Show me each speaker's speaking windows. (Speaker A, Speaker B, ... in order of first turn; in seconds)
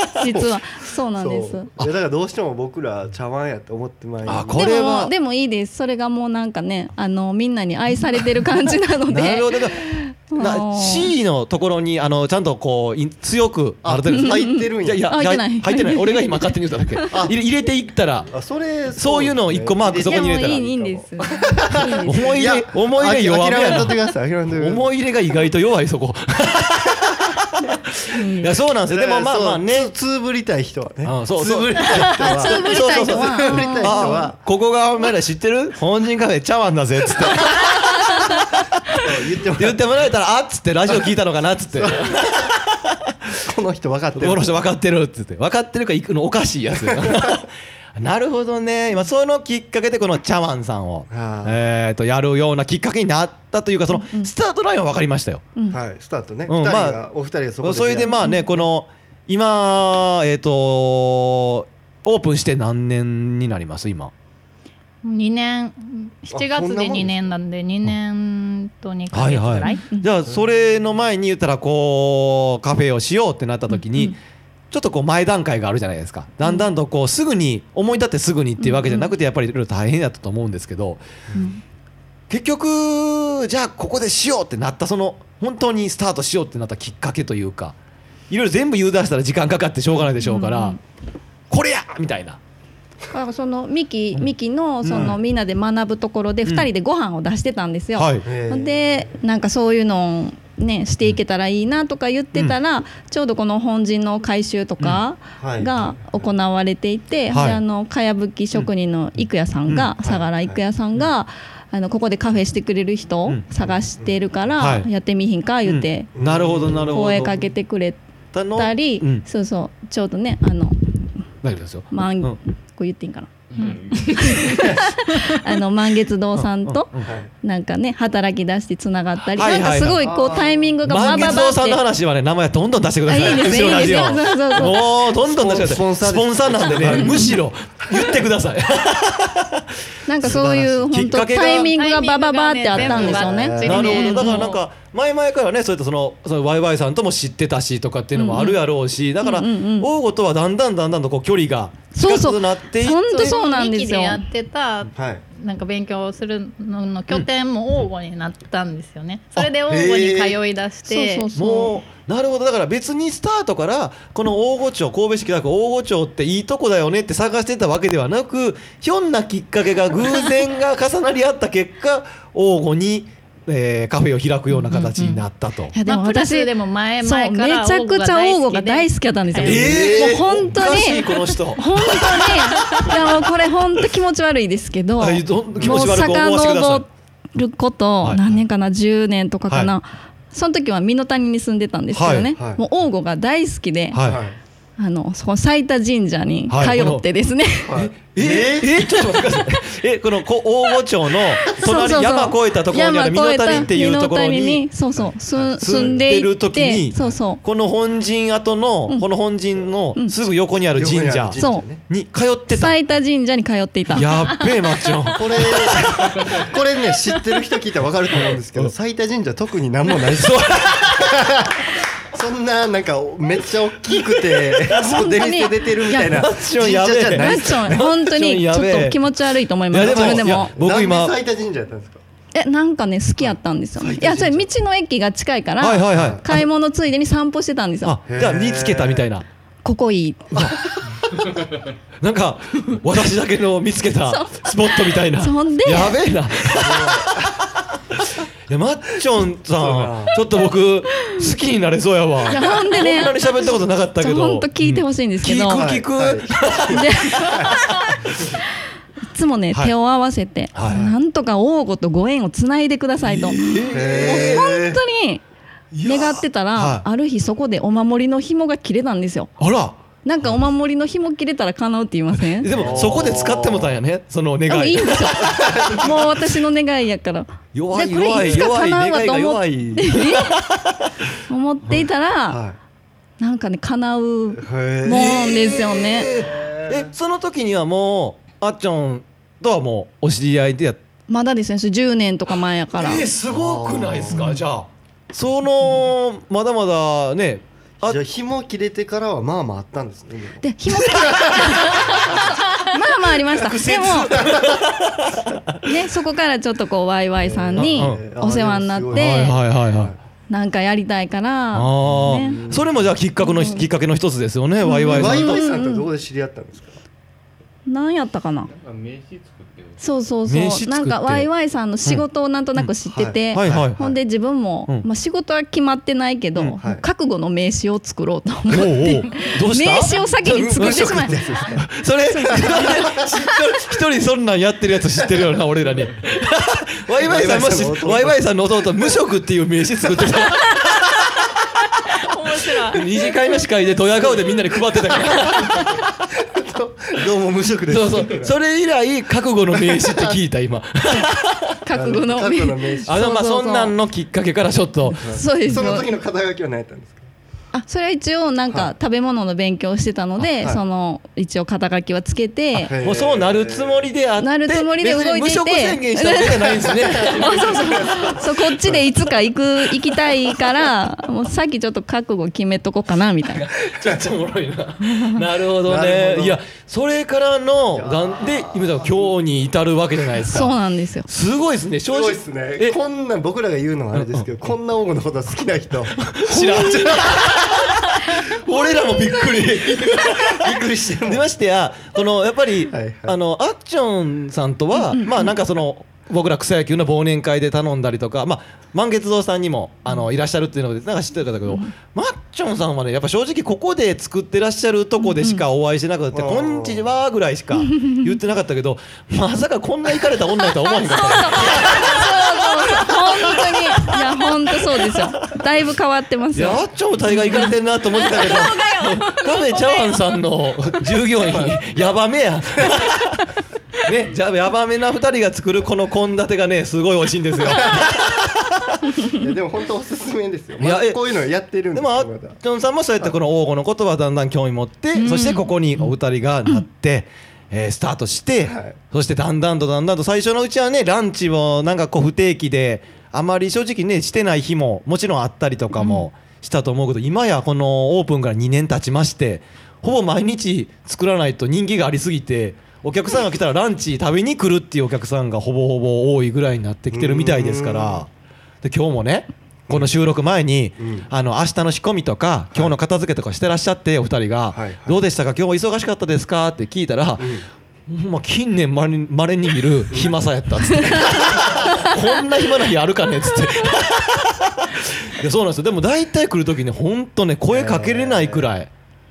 Speaker A: 0.2-1.7, 4.5-11.1, 14.1-17.1, 20.0-22.3, 28.1-28.5, 32.0-34.3, 53.9-54.3, 58.1-58.4, 69.7-70.1, 73.7-74.2, 78.6-79.1, 81.3-81.6, 90.2-90.8, 93.1-116.1, 116.9-118.0, 118.5-121.1, 121.9-123.3, 124.0-126.9, 127.4-131.8, 133.1-134.8, 136.7-137.4, 140.1-144.6, 148.2-148.6, 149.2-149.9, 151.9-154.2, 160.9-161.8, 174.5-174.9, 175.7-176.5, 177.0-194.0, 194.8-197.8, 201.4-207.4, 211.4-211.7, 212.5-214.1, 224.8-226.3, 227.1-230.5, 232.3-238.0, 239.6-240.4, 244.1-246.0, 252.3-253.3, 254.0-255.7, 256.7-257.4, 259.1-265.2, 265.8-269.4, 270.0-272.5, 274.5-280.3, 281.3-282.4, 283.2-286.1, 291.1-293.1, 300.4-304.3, 305.6-309.4, 310.3-312.4, 313.2-313.7, 314.6-315.9, 317.7-318.5, 319.8-331.6, 332.1-332.8, 351.6-353.8, 355.1-355.9, 357.5-362.7, 364.2-373.5, 380.2-381.1, 394.8-395.3, 405.0-405.4, 411.1-417.5, 435.0-435.4, 445.8-446.1
Speaker B: 0.3-0.6, 1.1-5.0, 13.8-15.1, 18.3-24.9, 28.9-34.4, 38.9-39.8, 41.8-42.1, 43.4-44.6, 46.9-47.3, 51.1-51.7, 55.7-58.7, 66.3-67.3, 94.9-95.2, 98.2-99.2, 105.4-106.2, 110.0-110.6, 113.6-114.2, 116.2-117.4, 127.0-127.3, 130.0-131.5, 133.5-138.2, 140.2-141.3, 142.7-144.0, 155.0-155.2, 159.7-160.4, 179.4-180.6, 185.5-186.0, 192.3-192.6, 194.0-194.4, 197.7-198.8, 205.0-206.0, 210.7-211.8, 215.1-221.6, 222.1-227.8, 229.8-232.0, 233.2-234.4, 235.9-236.2, 238.1-239.1, 246.5-247.3, 249.6-250.2, 255.5-257.6, 260.7-261.0, 263.7-264.8, 272.5-273.8, 275.2-275.9, 282.3-282.6, 284.4-285.3, 286.2-286.9, 293.3-294.4, 297.8-302.3, 304.1-304.6, 307.2-310.0, 311.8-312.8, 314.8-316.8, 322.9-324.0, 330.2-331.7, 332.2-333.1, 337.0-339.0, 346.2-348.4, 349.6-350.2, 351.8-352.9, 355.0-357.1, 362.5-363.9, 366.8-368.8, 375.6-376.4, 377.8-378.9, 381.9-387.4, 389.9-391.3, 392.7-393.2, 406.1-406.9, 421.2-421.6, 429.1-432.4, 438.4-438.8, 456.9-458.1, 460.8-461.1, 462.5-462.8, 464.5-465.0, 467.2-467.5, 477.5-478.5
Speaker C: 4.2-5.1, 9.1-18.4, 19.0-20.6, 22.1-23.9, 24.6-29.9, 31.1-39.0, 39.6-43.1, 44.2-55.5, 56.5-57.0, 57.6-64.1, 69.1-74.2, 74.7-81.0, 82.3-87.8, 88.3-90.8, 91.5-92.4, 94.8-95.2, 98.0-98.3, 107.3-107.6, 109.7-109.9, 114.6-114.9, 115.7-117.4, 118.3-119.2, 121.4-122.4, 126.4-127.1, 129.3-130.2, 130.8-139.7, 140.9-141.7, 143.7-153.3, 161.3-175.7, 179.4-183.3, 185.0-186.8, 191.9-192.3, 193.9-194.2, 196.5-197.0, 197.7-204.7, 205.6-212.8, 213.9-216.5, 220.1-221.3, 224.6-225.3, 225.9-229.1, 229.7-231.1, 234.0-234.2, 235.6-236.4, 237.8-239.2, 240.3-240.6, 242.0-247.3, 247.9-258.3, 260.5-260.8, 263.0-264.6, 265.7-266.9, 269.4-269.8, 272.3-275.9, 277.5-280.9, 284.9-290.8, 292.7-298.0, 300.9-302.3, 303.4-305.4, 307.6-308.0, 308.9-309.9, 311.5-315.4, 320.3-321.3, 323.3-323.8, 328.5-341.3, 342.5-345.9, 347.7-351.6, 352.9-355.1, 362.8-368.3, 369.9-370.2, 373.3-380.5, 381.1-382.8, 383.9-384.3, 386.0-413.9, 414.8-415.1, 416.4-423.2, 423.8-429.0, 430.6-431.0, 431.7-458.1, 458.6-478.7
Speaker D: 65.0-69.8, 141.5-144.6, 153.1-161.3, 175.0-175.2, 175.9-179.8, 342.0-343.1, 419.6-419.9
Speaker E: 123.5-124.7, 318.5-319.9